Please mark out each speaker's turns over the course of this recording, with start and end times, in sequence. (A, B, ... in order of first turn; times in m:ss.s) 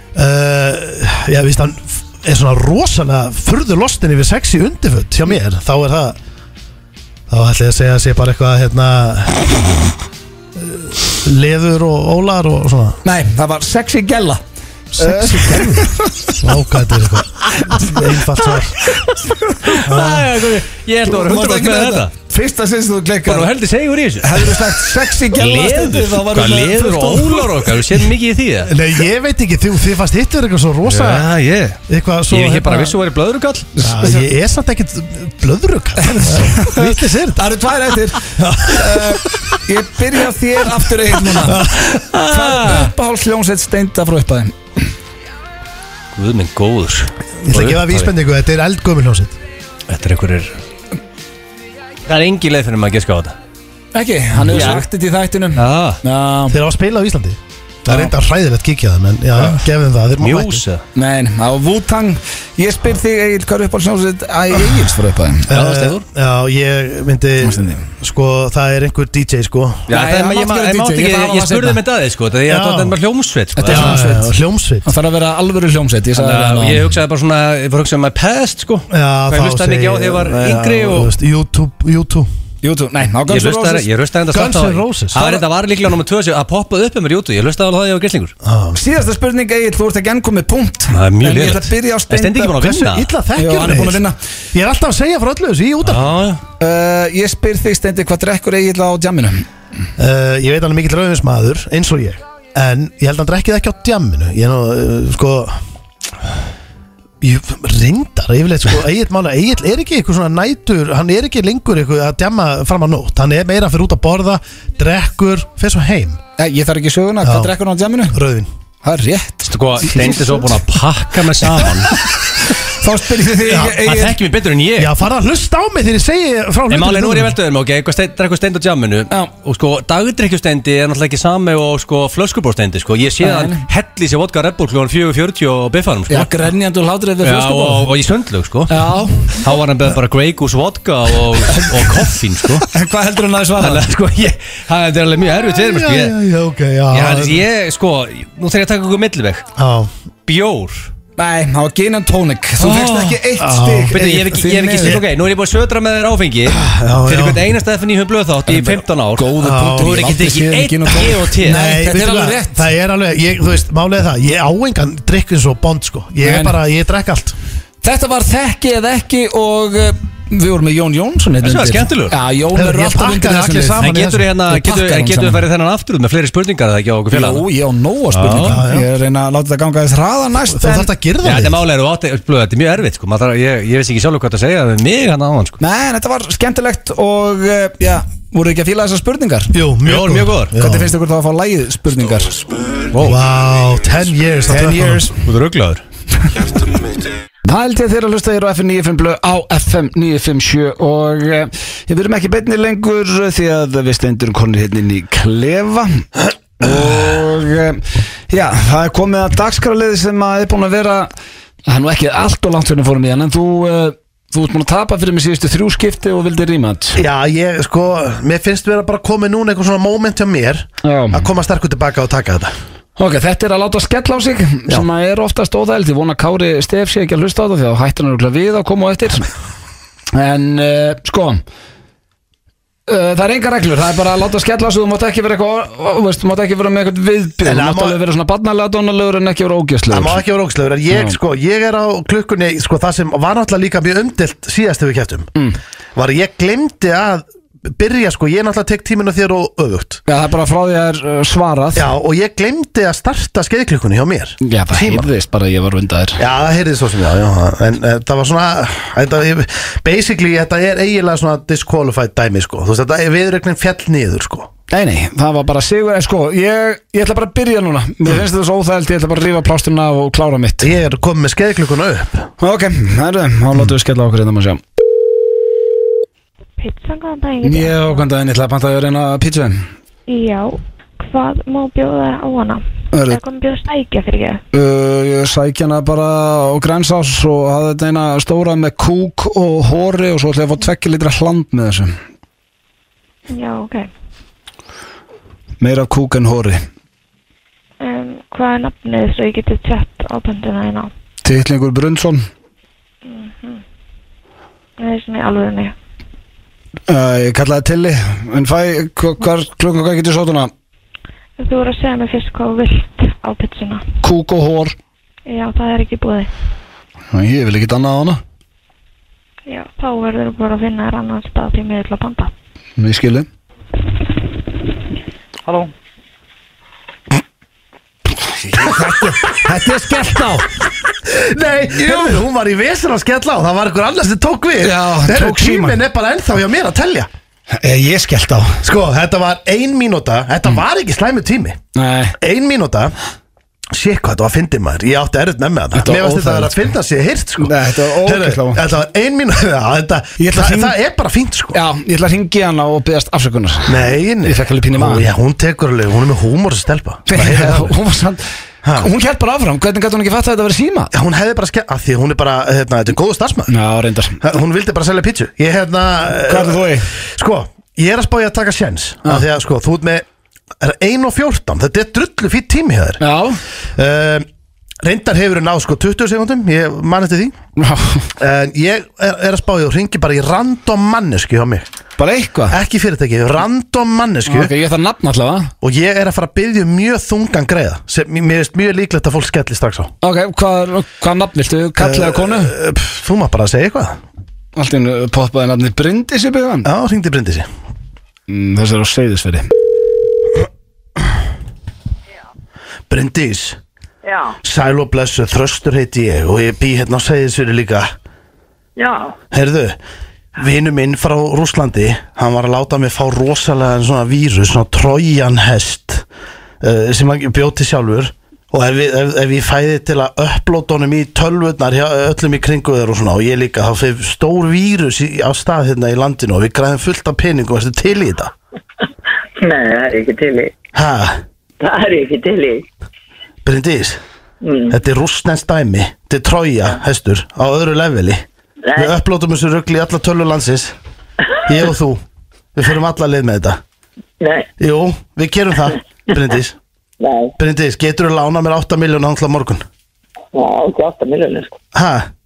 0:00.1-0:06.2 A
0:07.3-0:09.6 A
0:10.5-0:13.0 A
0:13.0-0:14.4 B
0:14.9-0:18.8 A
0:15.0-0:16.4 B
0:17.7-0:18.0 B
0:19.0-0:19.8 B
0:19.6-0:22.1 C
0:19.8-0:20.3 A
0:21.1-0:23.5 B
0:23.2-0:28.7 C
0:24.2-0:27.8 B
0:28.6-0:31.3 A
0:30.8-0:31.8 C
0:31.9-0:32.9 A
0:32.3-0:33.7 C
0:33.7-0:34.3 B
0:33.8-0:37.4 A
0:36.0-0:41.6 B
0:38.2-0:39.2 A
0:41.4-0:42.0 A
0:41.9-0:42.9 C
0:42.2-0:44.6 B
0:46.2-0:48.1 C
0:47.4-0:49.3 A
0:49.9-0:50.5 C
0:52.0-0:53.3 C
0:53.9-0:56.6 B
0:54.4-0:54.8 C
0:55.5-0:56.0 C
0:56.5-1:00.6 A
1:00.2-1:00.8 C
1:00.9-1:05.5 B
1:05.5-1:09.9 A
1:05.5-1:06.0 C
1:07.4-1:07.9 B
1:09.9-1:14.0 C
1:09.9-1:11.8 B
1:12.4-1:13.0 A
1:13.6-1:14.3 B
1:13.6-1:14.9 A
1:14.8-1:16.8 B
1:16.1-1:21.1 C
1:18.9-1:22.3 A
1:22.6-1:23.9 B
1:23.3-1:28.3 C
1:24.3-1:25.4 A
1:28.4-1:28.8 A
1:28.7-1:32.6 B
1:30.9-1:33.1 C
1:32.6-1:36.1 A
1:33.4-1:34.2 B
1:35.8-1:36.4 C
1:36.6-1:39.5 B
1:40.0-1:45.6 A
1:47.2-1:56.2 A
1:56.4-1:58.2 B
1:57.2-1:57.5 A
1:58.1-1:58.5 A
1:58.8-2:00.6 B
1:59.5-2:02.0 C
2:01.4-2:04.2 B
2:03.4-2:04.0 A
2:03.5-2:04.9 C
2:04.8-2:07.4 A
2:06.7-2:16.4 C
2:13.2-2:13.6 B
2:16.1-2:17.9 B
2:17.2-2:22.7 C
2:18.7-2:19.4 B
2:21.5-2:21.9 B
2:22.6-2:23.8 B
2:23.6-2:26.2 C
2:25.4-2:27.4 A
2:26.9-2:29.4 C
2:29.6-2:29.9 A
2:30.2-2:30.9 C
2:31.2-2:35.0 B
2:32.6-2:33.2 C
2:33.4-2:34.0 A
2:33.9-2:41.6 C
2:36.5-2:37.5 A
2:38.5-2:42.6 B
2:39.4-2:40.0 A
2:41.4-2:47.3 A
2:46.2-2:46.6 B
2:47.8-2:53.9 B
2:51.4-2:52.2 C
2:52.5-2:54.3 A
2:53.8-2:57.4 C
2:54.5-2:55.4 B
2:57.1-3:00.9 B
2:58.1-2:58.6 C
2:58.4-2:58.9 A
3:00.5-3:01.6 A
3:01.2-3:05.6 C
3:05.6-3:09.5 B
3:09.5-3:10.9 A
3:09.8-3:10.5 C
3:10.5-3:12.4 B
3:12.9-3:13.2 C
3:13.0-3:15.1 A
3:14.5-3:15.1 B
3:15.2-3:15.8 C
3:17.4-3:31.1 B
3:31.7-3:37.0 B
3:36.9-3:42.5 A
3:40.8-3:41.3 B
3:43.0-3:49.3 B
3:50.1-3:51.4 B
3:52.9-4:00.2 B
3:57.4-3:58.0 A
3:59.9-4:05.3 A
4:00.9-4:01.2 B
4:05.9-4:10.0 A
4:10.1-4:11.8 B
4:11.7-4:15.1 A
4:14.4-4:16.2 B
4:16.2-4:24.5 A
4:24.7-4:30.7 B
4:30.6-4:32.3 A
4:32.4-4:34.6 B
4:36.6-4:38.1 D
4:37.4-4:39.7 B
4:40.1-4:44.4 D
4:42.9-4:43.2 B
4:44.5-4:52.0 B
4:53.3-4:53.9 D
4:55.6-4:56.6 B
4:57.8-5:00.9 D
5:01.2-5:02.3 B
5:03.0-5:03.6 D
5:04.8-5:05.7 D
5:06.9-5:10.5 B
5:11.4-5:13.8 D
5:14.0-5:14.8 B
5:15.2-5:16.3 D
5:17.1-5:18.2 B
5:19.4-5:22.3 D
5:22.8-5:23.3 B
5:28.4-5:30.5 B
5:28.6-5:29.4 A
5:31.0-5:37.1 A
5:31.8-5:32.2 B
5:34.6-5:35.8 B
5:37.5-5:38.6 B
5:38.6-5:41.6 A
5:41.7-5:42.2 B
5:42.2-5:42.9 A
5:43.7-5:51.6 A
5:45.7-5:46.7 B
5:47.4-5:48.6 B
5:50.2-5:50.8 B
5:51.5-5:55.1 B
5:53.6-5:57.7 A
5:57.1-5:58.2 B
5:58.6-5:58.9 A
5:58.7-6:00.9 B
6:00.9-6:03.5 A
6:03.5-6:04.2 B
6:04.2-6:10.0 A
6:06.3-6:06.9 B
6:10.6-6:13.0 A
6:13.0-6:13.4 B
6:13.7-6:14.3 A
6:14.8-6:17.3 A
6:17.6-6:18.1 B
6:18.2-6:21.6 A
6:22.0-6:22.6 B
6:22.5-6:24.5 A
6:24.2-6:25.5 B
6:25.6-6:29.9 A
6:30.0-6:32.5 B
6:31.8-6:34.0 A
6:34.6-6:36.7 B
6:36.6-6:37.5 A
6:38.3-6:39.5 B
6:42.9-6:43.6 A
6:44.0-6:44.4 E
6:44.4-6:47.9 A
6:48.8-6:49.2 E
6:49.3-6:49.8 A
6:50.4-6:56.0 A
6:56.6-7:08.3 A
7:09.4-7:10.5 E
7:10.7-7:11.2 A
7:11.6-7:12.6 E
7:13.4-7:14.0 A
7:14.4-7:14.7 E
7:14.7-7:18.2 A
7:18.6-7:18.9 E
7:18.7-7:20.7 A
7:21.4-7:22.0 A
7:22.5-7:23.6 A
7:24.2-7:24.5 E
7:24.6-7:26.6 A
7:27.0-7:27.3 E
7:27.4-7:29.6 A
7:30.3-7:31.6 E
7:31.7-7:32.1 A